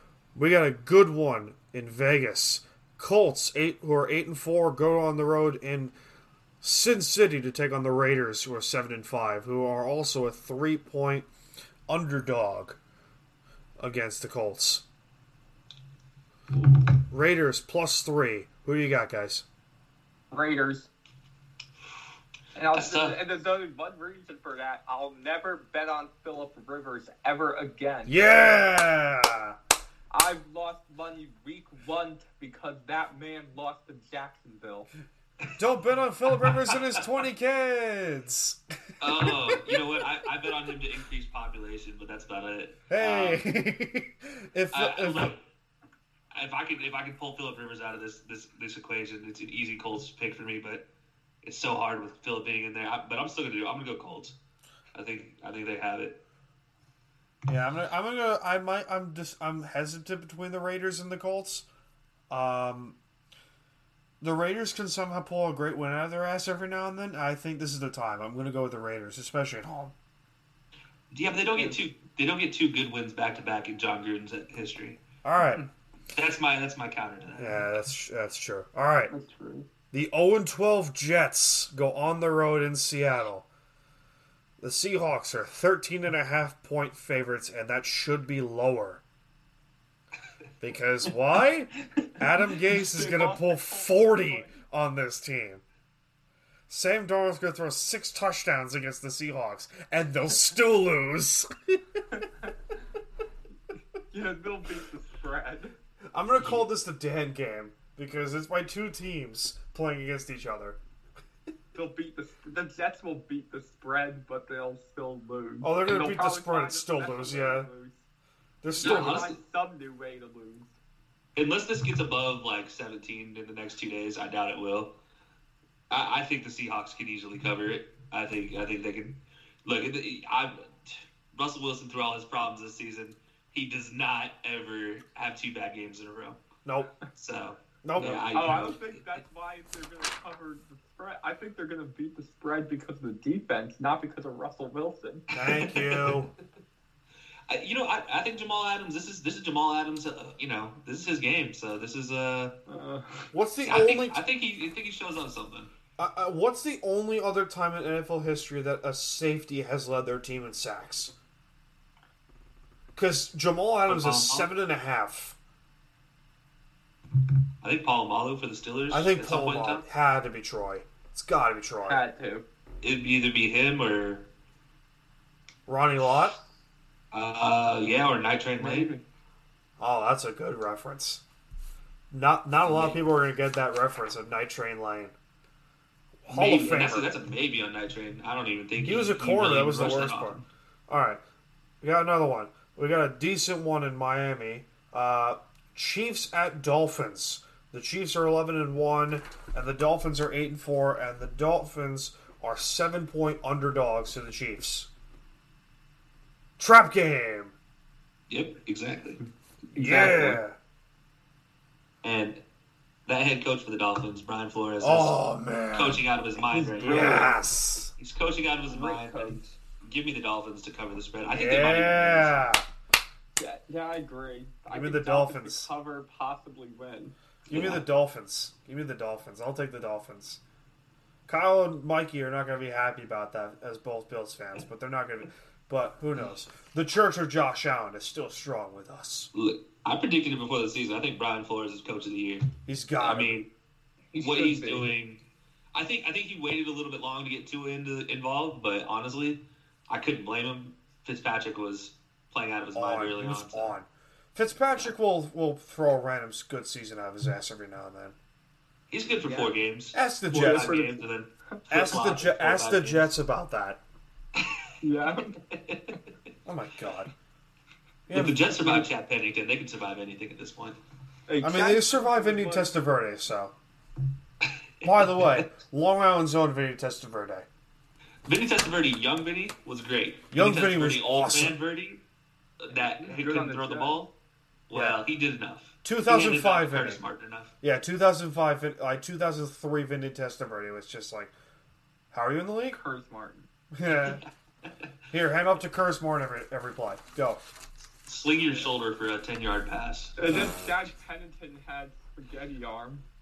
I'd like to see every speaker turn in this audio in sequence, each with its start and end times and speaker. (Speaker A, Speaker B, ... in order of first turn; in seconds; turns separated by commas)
Speaker A: 0.3-5.9, Speaker A: 6.6-11.3, Speaker A: 11.9-12.8, Speaker A: 13.8-14.8, Speaker A: 17.1-19.4, Speaker B: 20.3-20.9, Speaker B: 22.5-28.2, Speaker C: 22.7-23.2, Speaker A: 28.1-29.6, Speaker B: 30.1-34.9, Speaker A: 35.6-39.6, Speaker C: 36.4-36.8, Speaker C: 39.0-43.4, Speaker A: 42.9-45.3, Speaker C: 44.7-45.4, Speaker C: 46.3-50.9, Speaker C: 51.4-54.4, Speaker C: 54.9-56.2, Speaker A: 57.5-61.6, Speaker A: 62.3-63.0, Speaker A: 64.2-69.9, Speaker C: 71.1-75.0, Speaker A: 75.2-75.6, Speaker C: 76.1-77.7, Speaker A: 77.4-79.1, Speaker B: 79.1-79.7, Speaker A: 79.9-83.5, Speaker A: 84.6-89.0, Speaker A: 90.6-95.6, Speaker B: 92.0-94.5, Speaker A: 96.7-102.0, Speaker B: 102.1-102.5, Speaker B: 104.1-105.7, Speaker A: 106.1-110.8, Speaker B: 111.7-118.0, Speaker A: 115.6-117.7, Speaker A: 118.6-119.3, Speaker B: 118.7-120.7, Speaker C: 118.8-119.4, Speaker C: 121.3-125.0, Speaker C: 125.9-136.4, Speaker A: 136.6-136.9, Speaker C: 137.1-139.0, Speaker A: 137.8-138.3, Speaker B: 138.0-145.2, Speaker C: 145.3-146.2, Speaker A: 145.3-146.3, Speaker C: 147.5-152.6, Speaker B: 152.7-153.2, Speaker A: 153.3-154.2, Speaker C: 153.6-155.7, Speaker A: 156.0-161.1, Speaker A: 162.9-165.4, Speaker C: 163.9-164.5, Speaker C: 167.6-169.8, Speaker A: 168.9-172.0, Speaker B: 171.9-172.4, Speaker C: 172.8-174.3, Speaker A: 175.7-176.4, Speaker C: 177.1-178.9, Speaker B: 178.6-179.0, Speaker A: 179.8-181.2, Speaker A: 182.1-185.1, Speaker C: 182.7-182.9, Speaker A: 186.2-187.1, Speaker C: 186.3-190.4, Speaker A: 188.8-191.2, Speaker A: 191.8-204.9, Speaker A: 206.6-207.5, Speaker C: 208.3-209.2, Speaker B: 209.7-210.4, Speaker A: 209.8-210.6, Speaker C: 212.0-212.4, Speaker C: 213.1-217.3, Speaker A: 214.8-216.0, Speaker B: 216.5-217.4, Speaker A: 216.8-217.9, Speaker C: 218.0-222.5, Speaker B: 218.7-219.6, Speaker A: 221.3-222.6, Speaker B: 223.3-227.2, Speaker A: 224.7-225.7, Speaker A: 227.5-230.4, Speaker C: 227.5-227.8, Speaker A: 231.3-239.3, Speaker C: 239.3-243.5, Speaker A: 242.7-243.4, Speaker B: 244.1-244.9, Speaker C: 244.2-245.2, Speaker C: 245.7-253.7, Speaker A: 252.7-258.1, Speaker C: 258.9-263.1, Speaker B: 259.2-259.5, Speaker A: 259.9-260.8, Speaker B: 260.3-261.0, Speaker A: 261.7-263.8, Speaker C: 264.4-264.6, Speaker B: 264.8-265.4, Speaker C: 265.4-266.0, Speaker A: 266.4-267.1, Speaker A: 268.1-268.4, Speaker C: 268.1-270.8, Speaker B: 271.3-272.8, Speaker A: 271.4-273.5, Speaker C: 274.4-275.5, Speaker A: 274.8-277.5, Speaker C: 278.2-282.0, Speaker A: 280.3-281.5, Speaker C: 282.6-284.1, Speaker B: 282.7-284.1, Speaker C: 284.7-287.5, Speaker A: 284.7-285.0, Speaker A: 285.8-287.0, Speaker A: 287.6-291.3, Speaker A: 292.1-292.8, Speaker B: 292.7-293.5, Speaker A: 293.7-294.2, Speaker A: 295.1-297.4, Speaker C: 298.0-300.4, Speaker B: 300.2-303.0, Speaker A: 300.3-300.9